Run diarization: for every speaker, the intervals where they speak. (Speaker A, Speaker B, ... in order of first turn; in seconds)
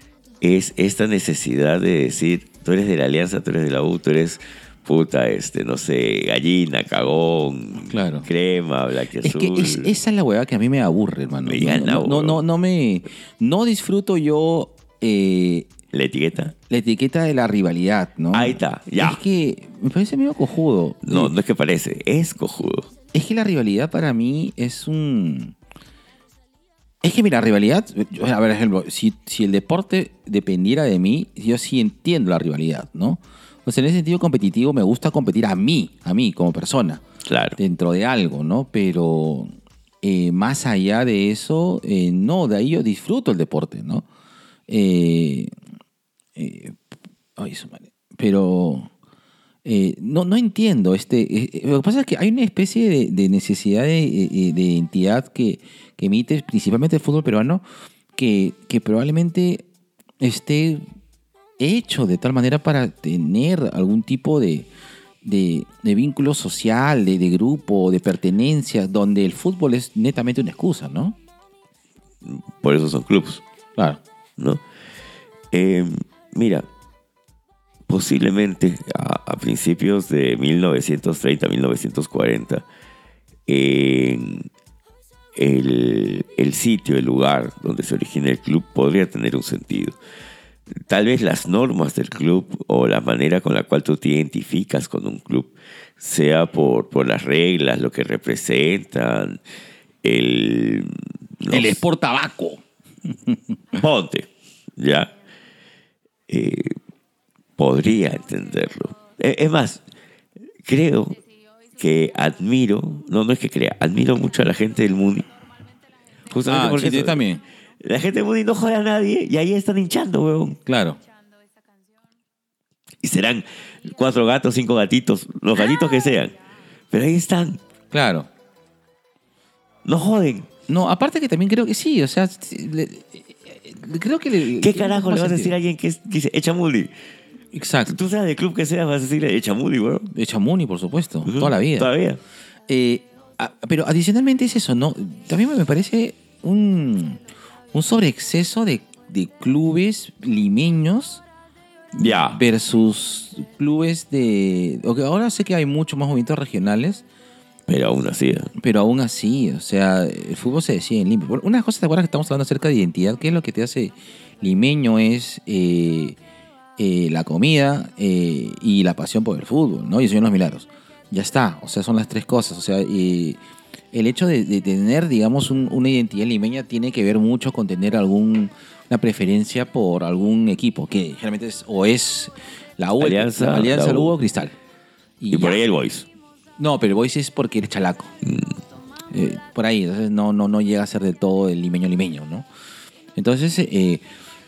Speaker A: 0.4-9.9, 11.4-12.4, 15.9-16.5, 18.3-19.2, 21.0-22.9, 37.2-37.6, 72.2-73.4, 75.5-76.7, 77.9-82.6, 83.5-84.5, 85.3-90.0, 90.8-99.4, 100.0-101.8, 103.7-105.1, 106.3-106.7, 107.6-109.8, 110.6-111.2, 111.8-115.3, 116.3-117.2, 117.8-120.6, 123.0-126.3, 126.9-127.6, 129.8-130.5, 134.6-136.9, 137.9-140.1, 141.2-142.2, 152.0-152.4, 157.7-158.5, 183.0-184.2, 185.3-186.1, 188.2-188.5
Speaker B: 7.8-8.3, 9.2-15.7, 16.7-21.3, 23.1-25.5, 27.0-37.0, 37.6-39.5, 40.0-44.1, 44.7-45.5, 46.4-46.8, 47.4-48.9, 49.6-57.6, 58.1-59.6, 60.2-60.8, 61.6-64.7, 65.2-71.2, 101.5-102.6, 116.4-117.4, 120.7-121.0, 127.9-128.3, 130.7-135.5, 137.5-137.9, 140.1-141.9, 142.7-147.2, 147.7-151.2, 151.9-157.0, 158.6-166.2, 166.8-173.4, 173.9-184.5, 185.2-185.6, 186.6-188.1, 189.1-192.4, 193.1-194.0